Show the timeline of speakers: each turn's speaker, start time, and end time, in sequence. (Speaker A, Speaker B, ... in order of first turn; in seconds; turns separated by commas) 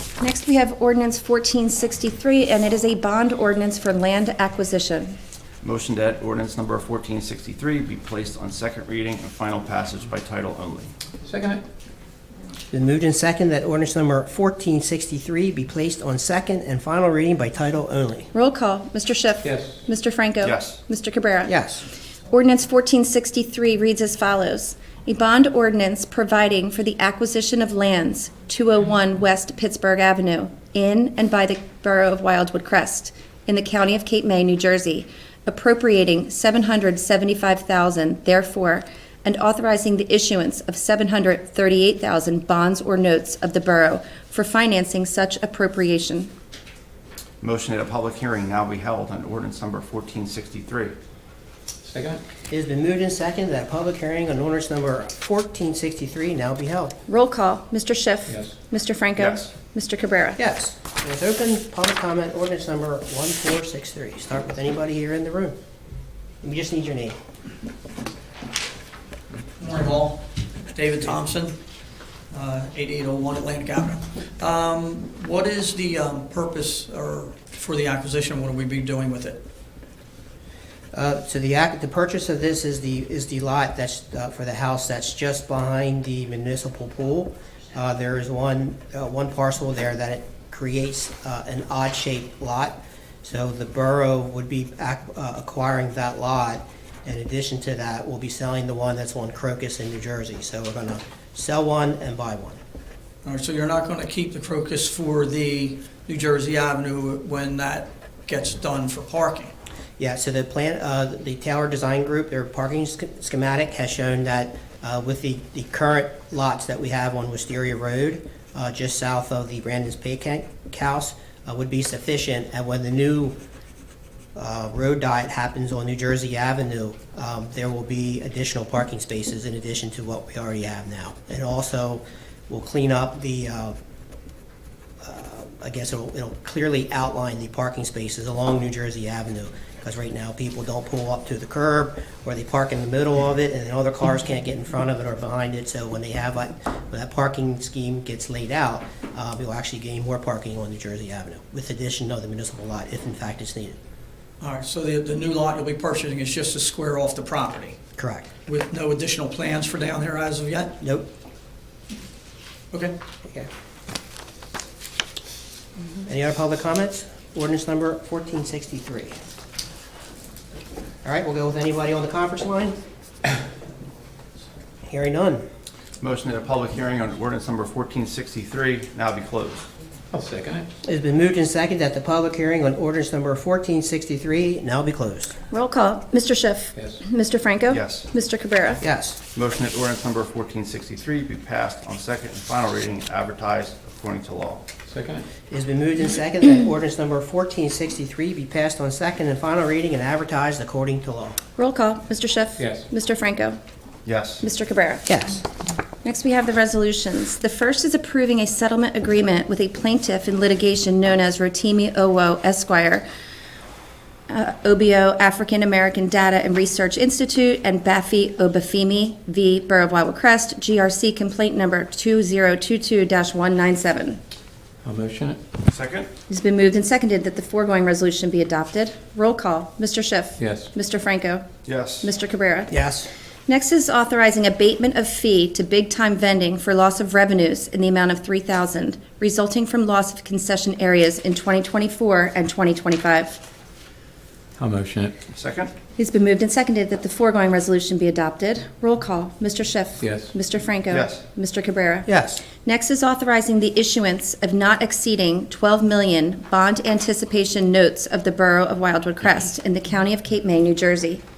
Speaker A: 0.2-5.2, Speaker B: 5.6-10.9, Speaker C: 11.2-11.6, Speaker D: 12.7-18.3, Speaker A: 18.3-21.5, Speaker C: 19.4-19.8, Speaker B: 20.4-20.8, Speaker D: 21.5-21.8, Speaker A: 22.3-46.3, Speaker B: 47.4-50.9, Speaker C: 51.8-52.2, Speaker D: 52.5-57.0, Speaker A: 57.1-60.4, Speaker C: 58.3-58.5, Speaker B: 59.2-59.5, Speaker D: 60.4-65.6, Speaker D: 66.4-67.2, Speaker E: 69.6-71.6, Speaker E: 72.3-79.4, Speaker D: 80.9-102.6, Speaker E: 103.2-109.5, Speaker D: 110.0-123.4, Speaker D: 124.3-133.8, Speaker D: 135.0-153.8, Speaker E: 154.4-157.8, Speaker D: 158.0-158.3, Speaker E: 158.4-160.8, Speaker D: 160.8-161.1, Speaker D: 166.0-169.2, Speaker D: 171.0-172.8, Speaker D: 174.8-175.4, Speaker B: 176.0-179.7, Speaker C: 180.1-180.7, Speaker D: 180.8-185.4, Speaker A: 185.5-188.8, Speaker C: 186.8-187.0, Speaker B: 187.7-188.1, Speaker D: 188.8-189.2, Speaker B: 189.3-194.6, Speaker C: 194.9-195.2, Speaker D: 195.5-201.4, Speaker A: 201.6-203.6, Speaker C: 202.6-202.8, Speaker B: 204.1-204.4, Speaker A: 204.4-205.1, Speaker D: 205.1-205.4, Speaker A: 206.0-213.0, Speaker A: 214.3-224.2, Speaker C: 224.8-225.4, Speaker B: 225.7-226.1, Speaker A: 226.3-231.4, Speaker C: 230.4-230.7, Speaker B: 231.7-232.1, Speaker A: 232.0-232.7, Speaker D: 232.7-233.1, Speaker A: 233.5-243.4, Speaker C: 244.6-245.2, Speaker B: 245.3-245.7, Speaker A: 246.0-252.1, Speaker C: 250.0-250.3, Speaker B: 250.9-251.2, Speaker D: 252.1-252.4, Speaker A: 252.6-261.2